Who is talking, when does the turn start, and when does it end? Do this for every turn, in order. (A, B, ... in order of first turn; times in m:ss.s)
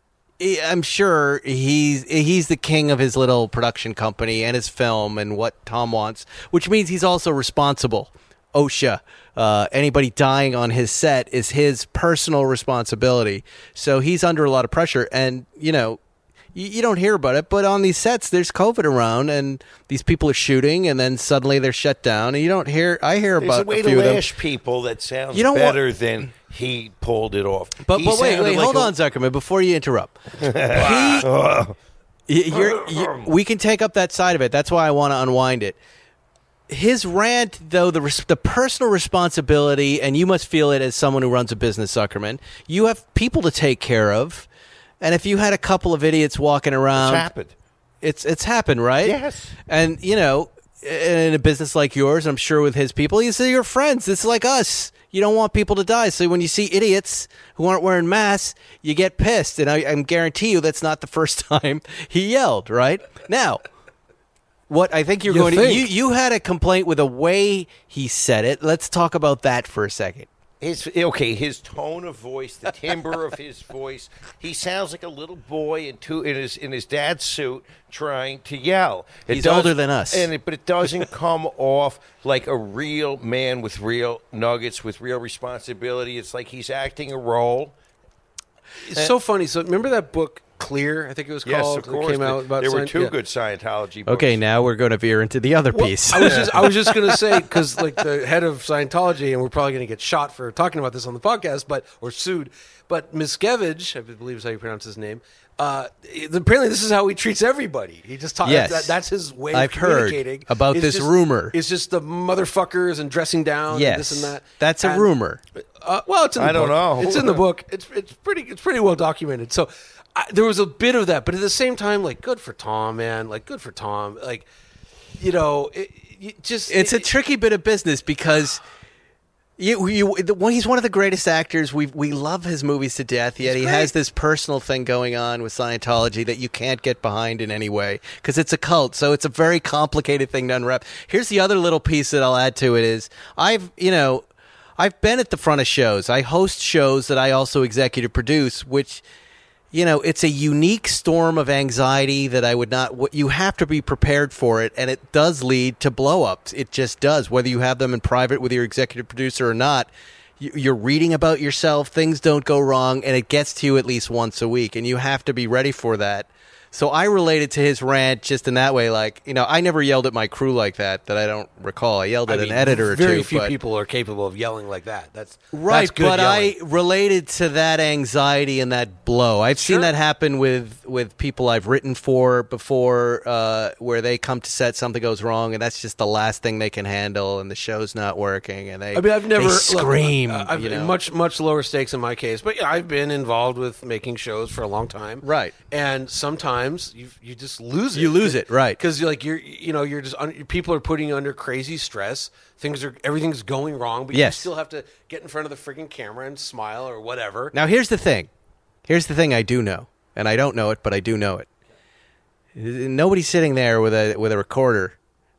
0:00.4-0:16.0 A
0:16.5-0:24.2 A
0:23.4-0:28.9 B
0:25.3-0:25.8 A
0:27.8-0:31.3 A
0:30.4-0:31.8 B
0:32.3-0:35.8 A
0:32.5-0:33.3 B
0:36.7-0:44.5 A
0:45.0-0:47.3 A
0:46.9-0:47.5 B
0:48.0-0:49.1 A
0:49.0-0:49.5 B
0:49.7-1:03.6 A
1:04.7-1:10.3 A
1:05.3-1:05.9 C
1:10.6-1:27.7 B
1:19.3-1:20.3 A
1:28.8-1:33.1 C
1:31.4-1:34.4 B
1:34.1-1:37.4 A
1:35.7-1:55.1 C
1:48.4-1:49.0 A
1:49.5-1:51.6 A
1:53.7-1:55.4 A
1:55.8-2:04.5 C
1:56.4-1:57.4 B
2:05.2-2:07.1 C
2:06.7-2:08.6 A
2:09.6-2:24.2 A
2:13.4-2:13.9 C
2:24.8-2:29.0 A
2:29.7-2:39.9 A
2:40.4-2:53.5 A
2:52.3-2:56.6 C
2:55.5-3:10.9 A
2:59.6-2:59.9 C
3:08.9-3:27.5 C
3:15.2-3:15.5 A
3:17.9-3:18.8 A
3:24.1-3:24.5 A
3:27.5-3:28.3 A
3:28.9-3:31.5 A
3:32.5-3:35.0 A